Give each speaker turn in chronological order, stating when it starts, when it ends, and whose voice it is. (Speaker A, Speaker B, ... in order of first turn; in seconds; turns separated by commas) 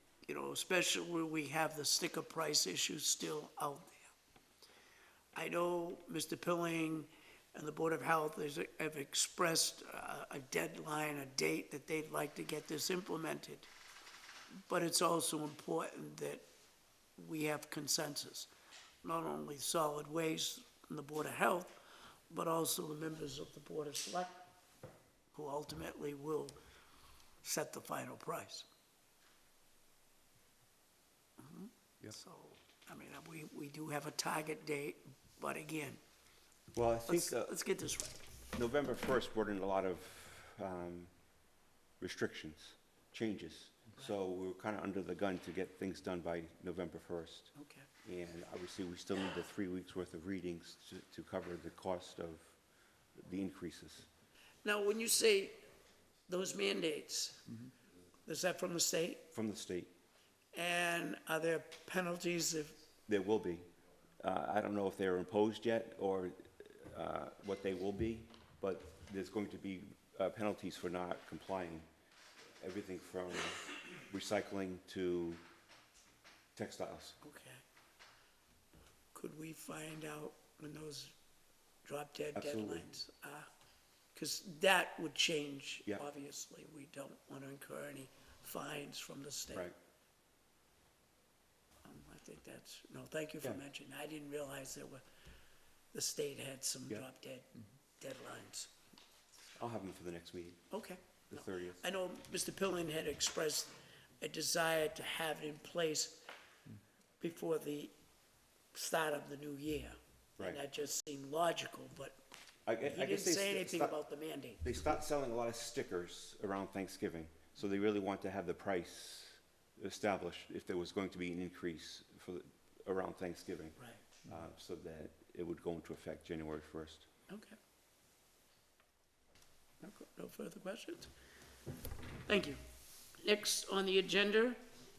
Speaker A: 0.3-4.1, Speaker A: 5.3-13.7, Speaker A: 14.7-16.4, Speaker A: 17.2-18.5, Speaker A: 19.0-21.8, Speaker A: 22.3-24.4, Speaker A: 25.3-26.6, Speaker A: 27.4-28.6, Speaker A: 31.4-36.0, Speaker B: 36.7-37.5, Speaker A: 37.1-38.2, Speaker B: 38.5-41.1, Speaker B: 42.0-47.5, Speaker A: 47.5-47.9, Speaker B: 48.0-52.6, Speaker B: 53.2-54.1, Speaker A: 54.6-55.6, Speaker A: 56.3-57.4, Speaker A: 58.3-59.2, Speaker B: 59.3-59.9, Speaker A: 60.5-62.8, Speaker B: 63.1-63.7, Speaker B: 64.2-71.9, Speaker B: 72.6-75.4, Speaker B: 76.6-77.2, Speaker A: 77.2-77.6, Speaker A: 79.2-81.1, Speaker A: 81.8-83.5, Speaker B: 82.3-82.9, Speaker A: 84.2-89.7, Speaker A: 91.8-95.0, Speaker A: 95.9-97.5, Speaker A: 98.0-98.7, Speaker B: 99.6-100.6, Speaker A: 100.7-106.2, Speaker B: 101.3-101.8, Speaker A: 107.2-107.9, Speaker A: 108.7-112.2, Speaker B: 112.7-114.0, Speaker A: 112.9-114.7, Speaker B: 114.6-123.8, Speaker B: 124.3-127.1, Speaker A: 127.3-127.6, Speaker A: 129.8-131.1, Speaker A: 132.3-132.6, Speaker A: 133.2-134.6